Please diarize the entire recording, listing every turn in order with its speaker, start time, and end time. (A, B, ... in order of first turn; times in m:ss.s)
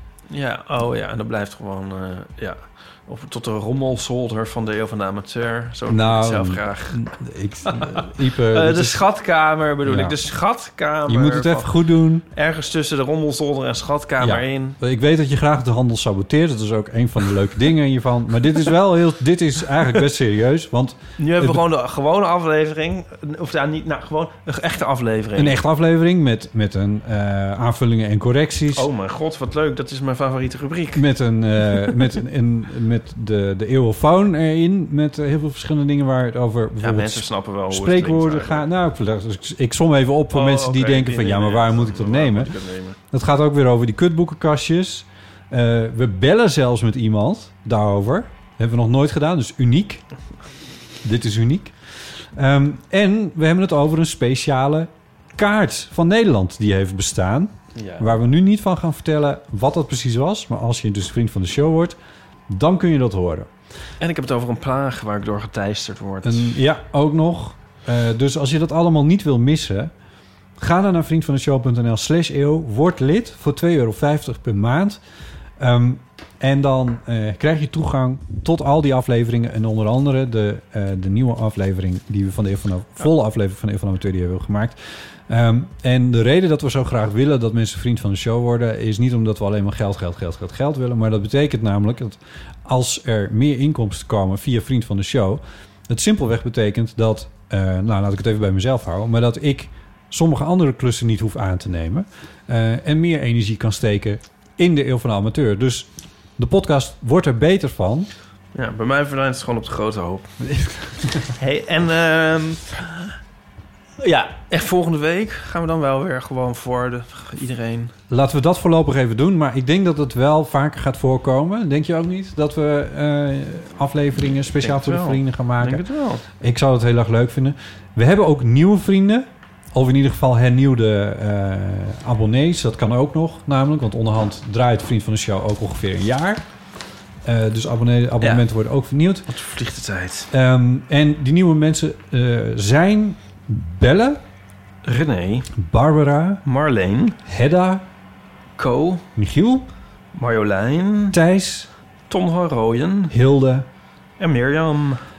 0:00.3-0:07.1 A
0:05.9-0:09.0 B
0:07.6-0:14.8 A
0:09.8-0:10.2 B
0:11.1-0:12.3 B
0:14.2-0:21.6 B
0:21.2-0:25.6 A
0:25.4-0:28.9 B
0:28.7-0:31.1 A
0:30.9-0:42.5 B
0:36.8-0:38.7 A
0:40.3-0:43.0 A
0:43.1-0:50.1 B
0:51.0-1:02.0 B
0:57.7-0:58.1 A
1:02.5-1:03.5 B
1:04.0-1:06.6 A
1:06.2-1:09.9 B
1:10.6-1:15.0 B
1:15.6-1:48.1 B
1:48.5-1:50.4 A
1:50.4-1:51.3 B
1:51.3-1:53.1 A
1:54.0-1:57.9 A
1:58.1-2:16.5 B
2:04.6-2:06.2 A
2:17.2-2:19.3 B
2:18.2-2:18.5 A
2:19.3-2:20.3 A
2:20.3-2:24.2 B
2:24.8-2:25.5 A
2:25.6-2:26.4 B
2:26.4-2:27.2 A
2:27.3-2:27.8 B
2:28.6-2:29.0 A
2:29.2-2:29.7 B
2:30.1-2:31.2 A
2:31.1-2:31.7 B
2:32.1-2:33.2 A
2:33.1-2:33.7 B
2:34.2-2:35.0 A